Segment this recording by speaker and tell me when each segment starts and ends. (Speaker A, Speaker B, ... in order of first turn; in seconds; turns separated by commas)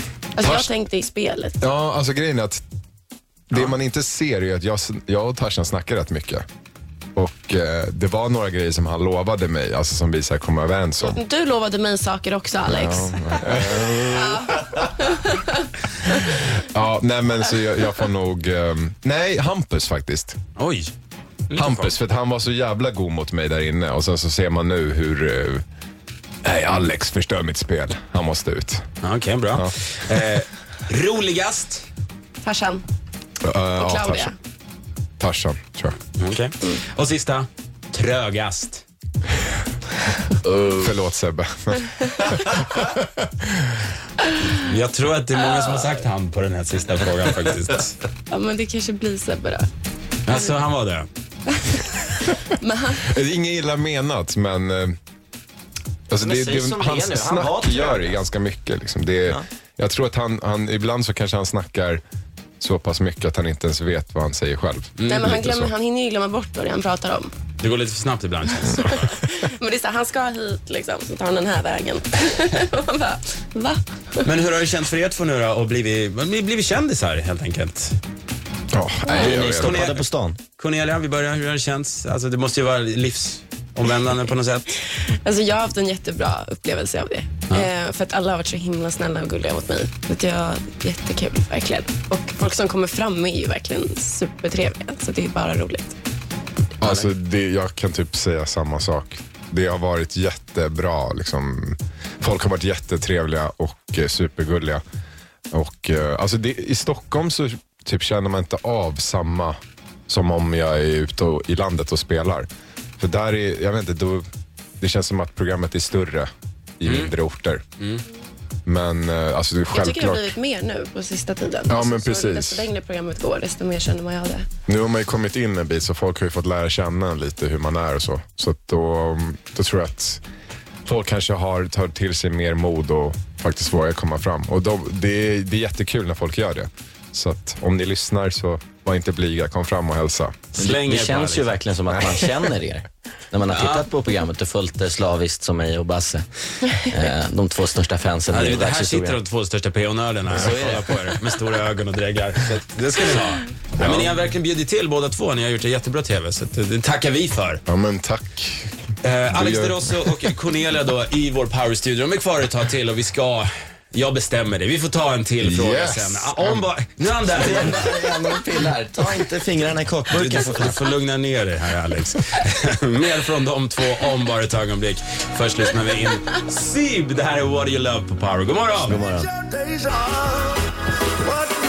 Speaker A: 0.4-1.6, Speaker B: 0.4-0.7, Speaker B: 1.6-2.6, Speaker B: 3.5-6.5, Speaker B: 7.1-11.2, Speaker A: 11.0-15.7, Speaker B: 12.7-14.8, Speaker B: 16.0-20.4, Speaker C: 20.6-20.9, Speaker C: 21.5-21.9, Speaker B: 21.5-25.6, Speaker B: 26.4-28.8, Speaker C: 29.0-31.8, Speaker B: 29.5-30.4, Speaker A: 32.4-32.8, Speaker B: 33.4-34.3, Speaker A: 33.8-34.3, Speaker B: 35.2-36.0, Speaker C: 36.2-38.8, Speaker B: 40.6-43.9, Speaker C: 44.5-48.0, Speaker A: 48.3-49.7, Speaker C: 50.2-51.1, Speaker A: 51.6-53.1, Speaker B: 53.0-55.0, Speaker B: 56.1-62.0, Speaker D: 56.2-58.2, Speaker B: 62.6-65.7, Speaker C: 65.0-65.4, Speaker A: 65.0-67.3, Speaker C: 67.6-69.0, Speaker A: 68.6-74.3, Speaker C: 74.2-78.0, Speaker B: 78.7-79.8, Speaker A: 79.0-79.4, Speaker C: 79.1-84.8, Speaker D: 79.2-80.4, Speaker A: 84.9-95.9, Speaker B: 96.8-104.8, Speaker C: 96.8-97.1, Speaker B: 105.5-109.6, Speaker B: 110.1-112.5, Speaker B: 113.0-114.2, Speaker B: 114.8-117.6, Speaker C: 116.8-117.1, Speaker C: 117.8-118.0, Speaker B: 118.7-120.3, Speaker A: 119.7-124.5, Speaker B: 121.7-122.7, Speaker B: 124.7-130.2, Speaker B: 130.8-140.5, Speaker C: 140.5-141.6, Speaker D: 140.6-146.2, Speaker B: 141.9-142.5, Speaker C: 143.4-143.9, Speaker D: 146.8-149.2, Speaker C: 148.3-157.6, Speaker D: 150.3-151.0, Speaker B: 153.8-154.1, Speaker B: 157.7-158.8, Speaker C: 159.0-168.4, Speaker B: 159.3-160.3, Speaker B: 165.4-166.6, Speaker D: 167.3-170.7, Speaker C: 170.1-179.0, Speaker D: 178.9-180.5